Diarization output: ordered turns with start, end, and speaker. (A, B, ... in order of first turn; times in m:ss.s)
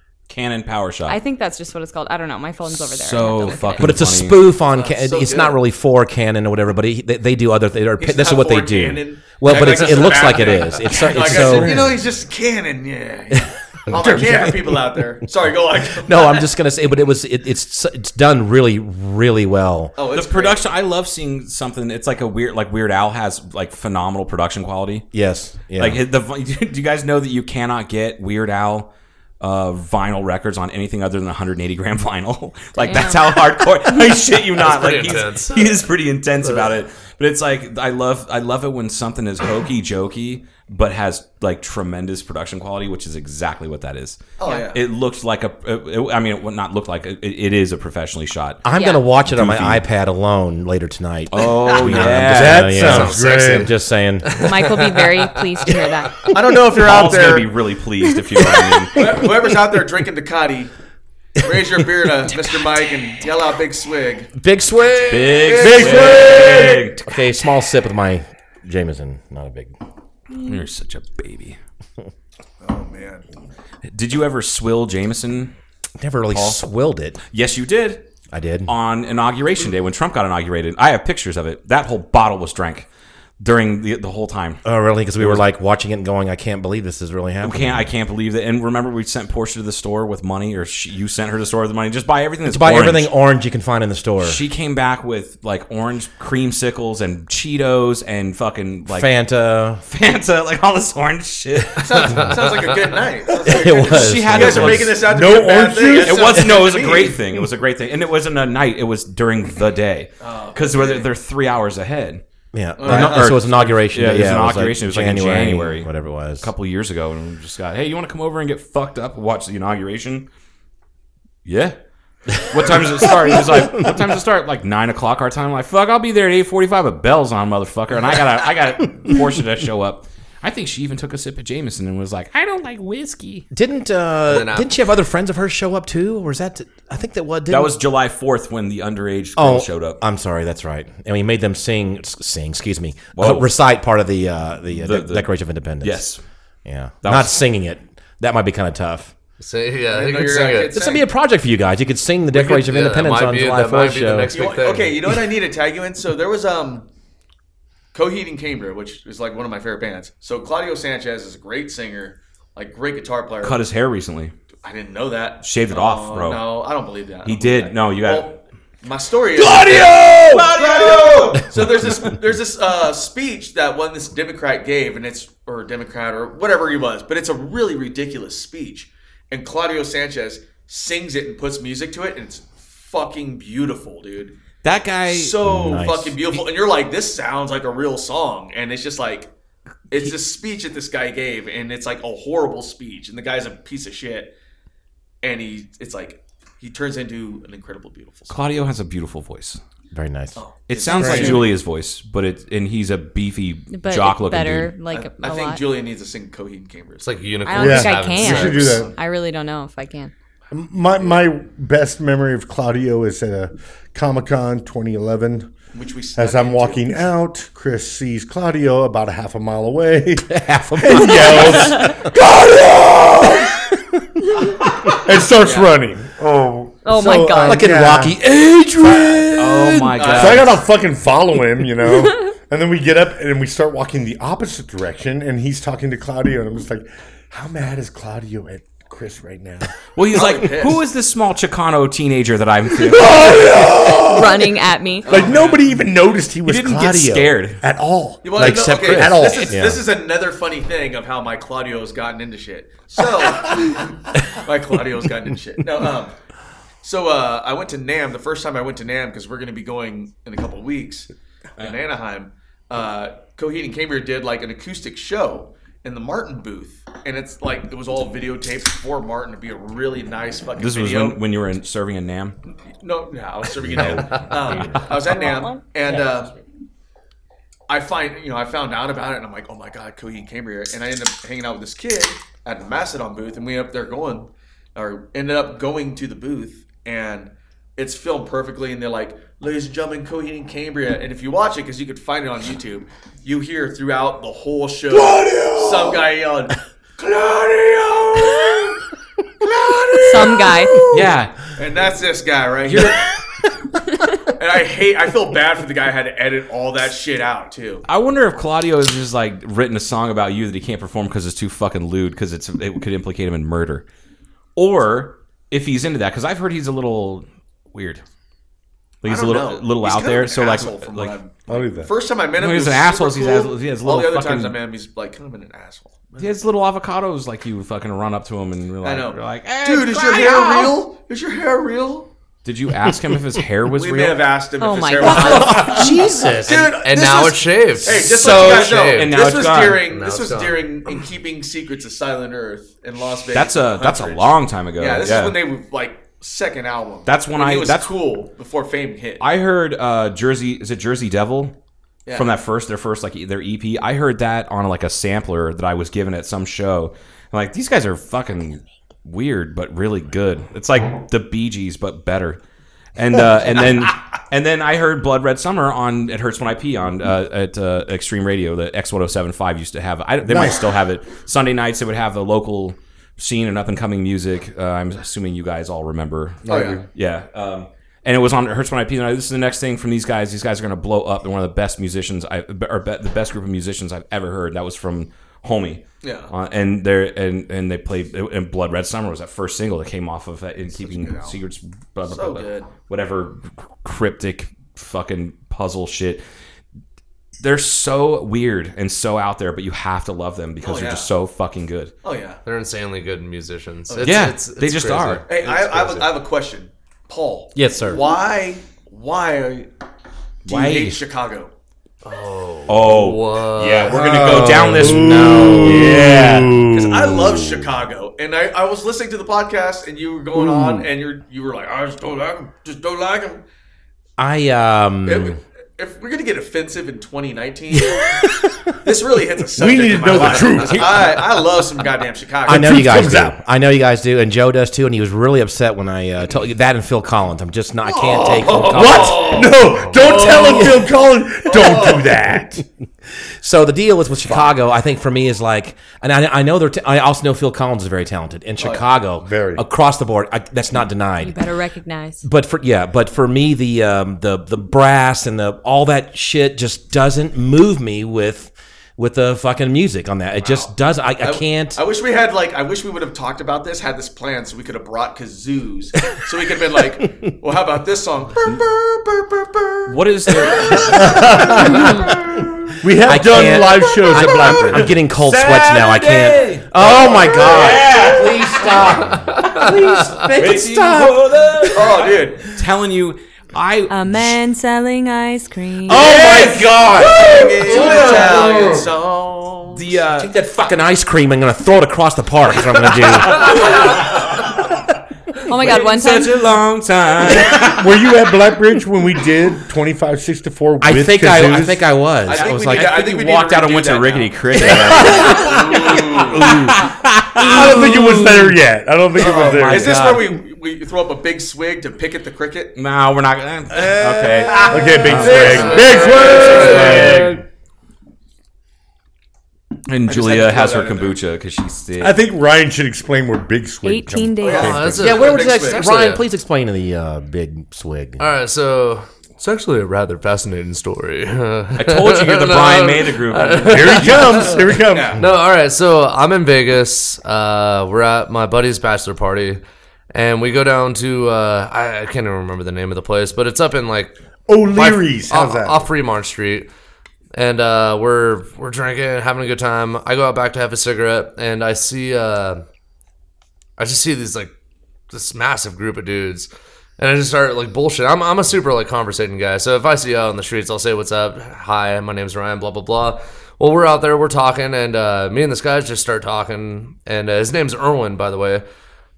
0:00.3-0:01.2 A
0:01.1-0:03.9 B
0:02.7-0:04.5 A
0:03.8-0:11.9 C
0:04.7-0:05.6 D
0:08.0-0:16.5 D
0:11.2-0:12.0 A
0:13.9-0:15.0 C
0:15.9-0:20.0 C
0:20.0-0:20.6 D
0:20.1-0:25.1 A
0:25.1-0:26.0 C
0:25.8-0:48.6 A
0:32.8-0:33.4 B
0:34.6-0:36.7 E
0:44.4-0:44.8 D
0:48.6-0:54.4 C
0:48.7-0:49.1 B
0:49.3-0:49.8 A
0:51.3-0:52.9 A
0:52.0-0:53.7 F
0:52.7-0:53.7 E
0:54.2-0:55.4 E
0:54.4-0:56.4 B
0:56.3-0:57.5 D
0:56.7-0:59.2 A
0:58.5-0:58.8 B
0:59.0-1:00.7 D
1:01.4-1:04.3 D
1:04.4-1:09.7 C
1:05.1-1:07.0 A
1:05.3-1:06.1 E
1:05.4-1:06.2 D
1:05.9-1:06.5 F
1:10.4-1:11.6 A
1:12.6-1:13.3 D
1:13.9-1:15.5 A
1:16.0-1:17.2 C
1:16.3-1:16.6 A
1:17.3-1:18.1 A
1:18.3-1:18.7 C
1:18.7-1:22.9 A
1:23.4-1:24.6 A
1:24.6-1:27.8 C
1:25.2-1:25.4 A
1:27.4-1:33.1 A
1:32.5-1:34.4 C
1:34.2-1:39.1 A
1:38.9-1:39.8 C
1:39.9-1:42.4 A
1:41.8-1:47.2 D
1:43.4-1:44.9 C
1:43.8-1:45.0 A
1:45.0-1:46.3 F
1:46.0-1:52.2 A
1:50.2-1:51.1 D
1:52.5-1:56.5 C
1:52.8-1:53.6 D
1:52.8-2:00.3 A
2:01.4-2:01.8 A
2:02.3-2:13.5 A
2:13.5-2:17.8 C
2:14.3-2:14.7 E
2:17.5-2:20.0 A
2:19.4-2:26.1 C
2:23.2-2:23.5 A
2:24.7-2:25.3 A
2:25.8-2:26.2 A
2:26.6-2:29.1 C
2:27.0-2:27.4 A
2:29.4-2:30.8 E
2:29.9-2:31.1 D
2:30.7-2:34.3 C
2:32.3-2:35.0 E
2:34.3-2:36.9 D
2:37.9-2:43.6 D
2:43.4-2:44.3 A
2:44.6-3:04.4 D
2:45.4-2:46.5 A
2:47.2-2:48.4 A
2:49.4-2:52.0 A
3:04.6-3:05.4 A
3:05.1-3:09.3 D
3:05.4-3:06.2 C
3:09.9-3:14.3 D
3:15.2-3:18.4 D
3:18.3-3:19.6 A
3:19.9-3:20.4 C
3:20.4-3:21.6 D
3:20.7-3:24.7 A
3:21.0-3:21.5 C
3:23.7-3:25.6 B
3:24.9-3:27.1 D
3:27.0-3:28.8 E
3:27.4-3:30.1 B
3:27.6-3:28.9 F
3:28.2-3:29.0 D
3:30.5-3:35.5 F
3:35.7-3:37.0 D
3:36.2-3:43.7 F
3:40.3-3:42.1 C
3:44.9-3:48.2 F
3:45.4-3:45.7 D
3:46.8-3:47.8 B
3:47.4-3:50.5 C
3:48.9-3:50.6 A
3:50.0-3:50.6 D
3:50.2-3:59.7 F
4:00.0-4:03.7 A
4:00.1-4:00.8 D
4:02.8-4:09.6 F
4:04.0-4:05.1 B
4:05.0-4:05.6 D
4:06.5-4:07.6 A
4:08.2-4:16.2 D
4:08.4-4:09.9 C
4:16.8-4:31.2 D
4:30.6-4:32.4 A
4:32.8-4:36.4 D
4:33.7-4:34.9 A
4:37.7-4:58.8 D
4:54.9-4:56.0 F
4:59.5-5:00.7 D
5:00.0-5:00.9 B
5:00.8-5:01.4 A
5:01.6-5:03.0 D
5:02.6-5:03.0 A
5:04.4-5:07.8 D
5:07.9-5:13.9 A
5:14.6-5:18.0 A
5:19.0-5:21.2 A
5:19.0-5:26.3 D
5:21.5-5:21.9 F
5:22.4-5:24.6 A
5:26.2-5:30.8 A
5:28.8-5:32.1 D
5:32.4-5:34.3 A
5:33.7-5:49.2 D
5:34.6-5:35.7 B
5:35.0-5:36.8 C
5:36.8-5:39.2 E
5:38.0-5:39.8 A
5:39.9-5:40.6 E
5:43.3-5:45.4 A
5:47.1-5:47.9 A
5:49.2-5:51.6 A
5:52.1-5:52.3 D
5:52.1-6:02.4 A
6:03.0-6:36.2 A
6:10.2-6:10.7 F
6:16.5-6:16.8 F
6:16.5-6:16.9 D
6:26.0-6:26.3 D
6:30.7-6:31.4 D
6:32.1-6:32.7 D
6:37.4-6:41.9 A
6:40.6-6:41.1 D
6:42.0-6:42.4 D
6:42.4-6:45.2 E
6:43.9-6:44.3 D
6:44.0-6:46.1 A
6:45.3-6:49.7 D
6:47.6-6:48.0 C
6:50.4-6:51.0 A
6:50.5-6:51.5 D
6:52.0-6:53.9 E
6:52.7-6:56.6 A
6:53.9-6:56.6 C
6:54.2-6:57.4 F
6:56.7-7:03.4 D
7:00.4-7:00.9 F
7:04.2-7:05.4 C
7:05.0-7:08.2 D
7:07.8-7:08.3 C
7:08.8-7:12.9 D
7:09.5-7:11.1 F
7:10.1-7:10.8 A
7:10.8-7:11.1 C
7:12.5-7:13.4 F
7:12.5-7:19.2 C
7:17.8-7:20.8 D
7:18.7-7:22.6 F
7:20.2-7:20.7 C
7:21.5-7:22.2 D
7:23.4-7:31.4 C
7:28.6-7:28.8 D
7:29.2-7:29.6 F
7:31.2-7:32.2 B
7:32.2-7:41.8 C
7:40.4-7:51.0 D
7:49.9-7:52.5 A
7:50.7-7:51.0 C
7:50.9-7:52.1 F
7:51.6-7:52.1 C
7:52.8-7:54.9 F
7:53.0-8:01.9 C
7:54.4-7:59.2 A
7:56.8-7:58.0 D
7:59.4-7:59.7 E
8:00.2-8:04.3 A
8:01.7-8:02.5 D
8:03.9-8:06.1 B
8:05.9-8:08.9 C
8:05.9-8:08.5 A
8:07.2-8:10.0 D
8:09.7-8:10.3 A
8:10.2-8:14.0 C
8:13.4-8:14.0 A
8:15.4-8:16.5 B
8:15.6-8:18.0 A
8:17.4-8:21.9 F
8:20.8-8:22.9 C
8:22.3-8:26.6 D
8:22.3-8:26.0 A
8:25.1-8:25.4 F
8:26.0-8:26.8 F
8:26.4-8:28.5 C
8:27.4-8:28.5 A
8:27.4-8:30.0 F
8:29.2-8:30.4 A
8:29.2-8:32.7 D
8:32.8-8:37.2 A
8:34.5-8:37.4 F
8:35.2-8:37.3 E
8:35.2-8:37.0 D
8:39.9-8:42.2 A
8:40.1-8:41.2 D
8:42.0-8:45.1 F
8:43.8-8:44.9 B
8:44.4-8:46.1 D
8:44.5-8:46.2 E
8:45.0-8:48.2 C
8:48.2-8:54.6 E
8:51.8-8:54.5 A
8:53.7-8:55.2 F
8:54.9-8:55.2 D
8:55.2-8:59.6 E
9:00.1-9:04.2 E
9:04.5-9:05.9 F
9:04.7-9:06.7 E
9:07.3-9:12.6 E
9:13.8-9:14.5 E
9:15.1-9:28.6 E